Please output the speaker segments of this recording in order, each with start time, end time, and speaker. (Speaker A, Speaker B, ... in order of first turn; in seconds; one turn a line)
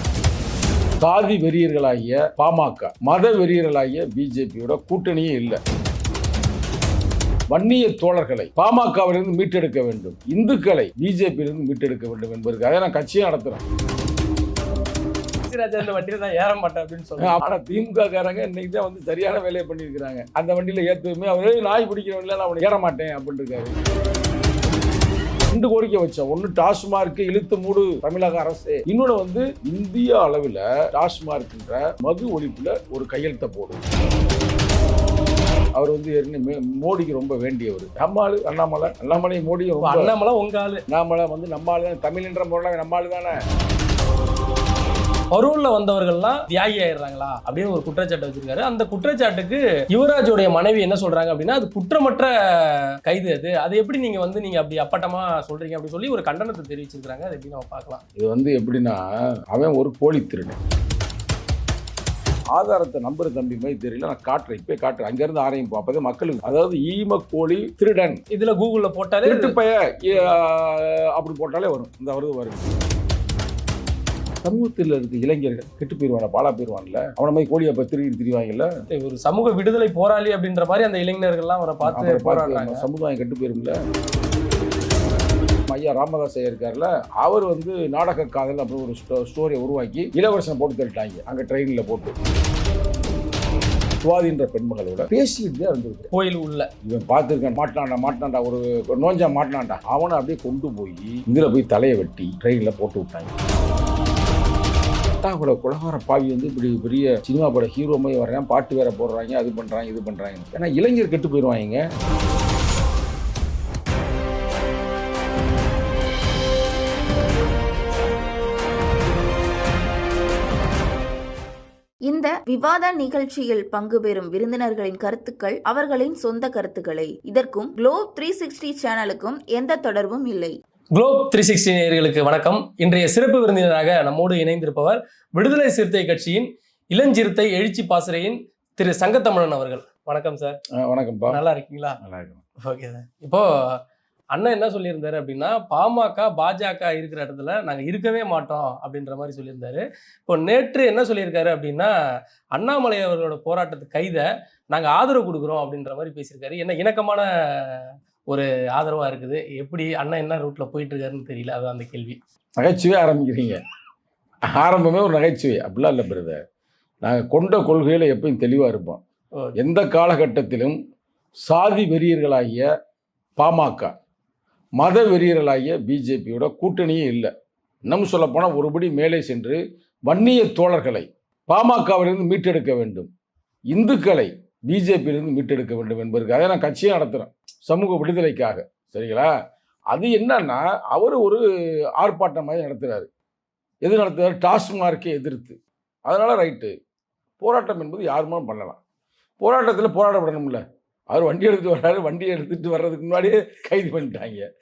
Speaker A: 1.0-5.6
Speaker A: 7.5-13.6
Speaker B: 15.5-17.4
Speaker A: 17.2-23.7
Speaker A: 25.5-33.8
Speaker A: 35.8-40.1
Speaker B: 39.8-40.8
Speaker A: 40.9-43.3
Speaker B: 45.3-58.0
Speaker A: 58.2-60.6
Speaker A: 62.5-68.2
Speaker B: 68.3-69.5
Speaker A: 69.2-72.8
Speaker A: 74.4-78.7
Speaker B: 78.9-82.8
Speaker A: 81.8-83.8
Speaker A: 85.7-92.1
Speaker A: 94.0-96.1
Speaker B: 96.1-96.7
Speaker A: 96.8-103.3
Speaker A: 105.2-111.8
Speaker C: 122.0-130.6
Speaker B: 130.9-140.6
Speaker A: 140.8-141.4
Speaker B: 141.3-142.0
Speaker A: 142.0-142.4
Speaker B: 142.6-143.8
Speaker B: 144.3-151.9
Speaker B: 152.5-162.2
Speaker A: 162.6-163.6
Speaker A: 164.5-166.4
Speaker A: 167.0-169.0
Speaker A: 169.6-170.8
Speaker A: 171.4-172.7
Speaker A: 173.4-173.9
Speaker A: 174.8-177.3
Speaker A: 177.9-183.1
Speaker A: 183.7-189.3
Speaker A: 189.9-191.4
Speaker A: 192.0-193.1
Speaker A: 193.8-196.7
Speaker A: 197.4-198.8
Speaker A: 199.4-204.5